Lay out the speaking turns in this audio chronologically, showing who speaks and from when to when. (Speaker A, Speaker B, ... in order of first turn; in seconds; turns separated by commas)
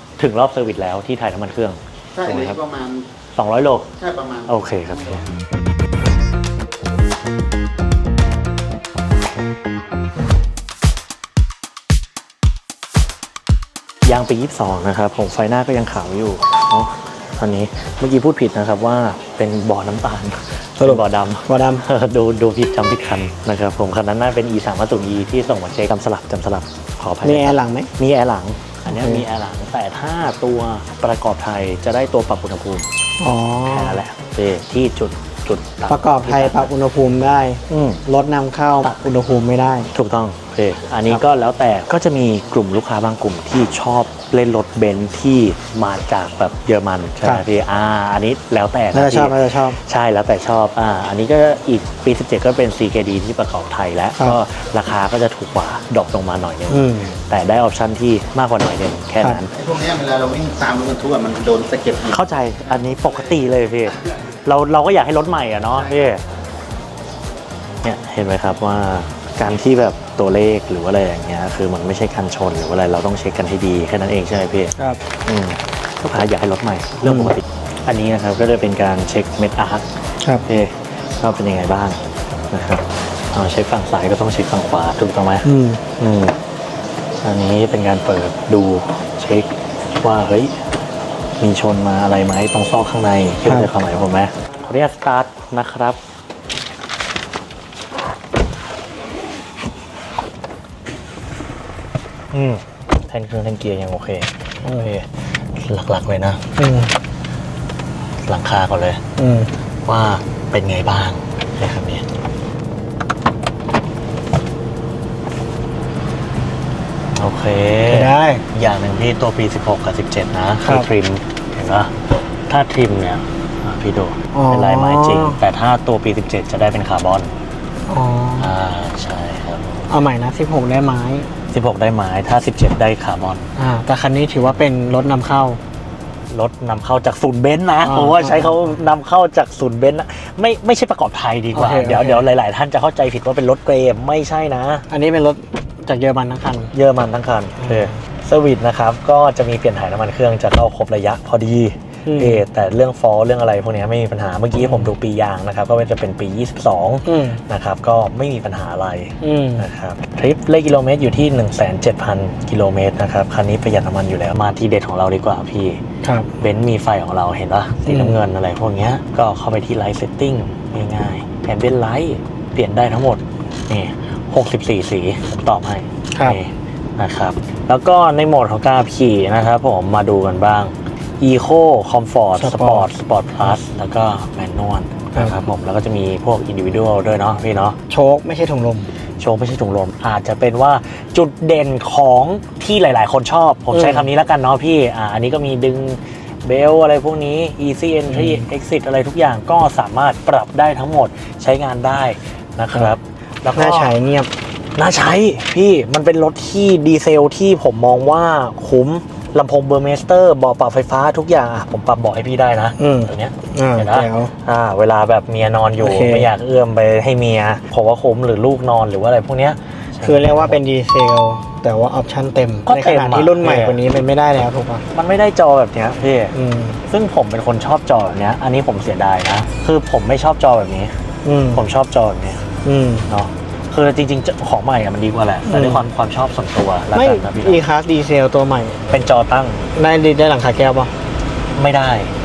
Speaker A: 0.2-2.6, Speaker B: 2.1-3.1, Speaker A: 3.4-3.9, Speaker B: 4.0-5.2, Speaker A: 4.5-5.3, Speaker A: 14.1-32.9, Speaker C: 20.8-21.9, Speaker C: 27.2-27.9, Speaker C: 28.9-29.3, Speaker C: 33.2-34.0, Speaker A: 33.7-36.7, Speaker C: 35.9-39.9, Speaker A: 37.7-38.0, Speaker A: 39.9-59.5, Speaker C: 48.9-49.8, Speaker C: 56.7-57.2, Speaker B: 59.5-62.2, Speaker A: 62.1-66.2, Speaker A: 67.8-74.7, Speaker A: 75.3-79.9, Speaker C: 77.0-77.3, Speaker A: 80.5-86.3, Speaker C: 85.4-85.8, Speaker A: 87.2-90.6, Speaker A: 91.4-96.0, Speaker C: 93.5-93.7, Speaker A: 102.3-106.4, Speaker C: 104.6-104.9, Speaker C: 106.6-106.9, Speaker A: 108.2-109.0, Speaker C: 109.2-109.5, Speaker A: 109.8-112.0, Speaker A: 117.2-121.9, Speaker C: 117.9-118.4, Speaker C: 120.6-120.9, Speaker A: 122.5-127.3, Speaker C: 124.3-125.4, Speaker C: 127.9-128.5, Speaker A: 128.4-129.9, Speaker C: 129.9-131.3, Speaker A: 131.5-133.5, Speaker C: 133.6-135.6, Speaker A: 136.3-144.9, Speaker C: 137.8-138.7, Speaker C: 141.5-142.3, Speaker C: 144.9-146.7, Speaker A: 146.7-165.8, Speaker C: 147.6-148.0, Speaker C: 152.1-152.4, Speaker C: 154.6-154.9, Speaker C: 157.1-157.4, Speaker C: 159.2-159.7, Speaker C: 166.0-166.3, Speaker A: 166.4-187.8, Speaker C: 167.9-168.2, Speaker C: 176.1-176.4, Speaker C: 182.4-182.9, Speaker C: 187.9-188.9, Speaker A: 189.2-203.9, Speaker C: 193.7-194.1, Speaker C: 198.1-198.5, Speaker C: 203.5-204.3, Speaker A: 204.8-220.6, Speaker C: 212.8-214.3, Speaker C: 215.8-216.3, Speaker C: 220.0-224.8, Speaker A: 222.7-223.8, Speaker A: 224.9-230.9, Speaker C: 226.3-226.8, Speaker C: 231.2-231.6, Speaker A: 231.5-232.5, Speaker C: 232.7-233.1, Speaker A: 233.1-237.6, Speaker C: 235.4-235.8, Speaker C: 236.9-238.9, Speaker A: 238.9-239.7, Speaker C: 239.8-240.9, Speaker A: 241.6-242.1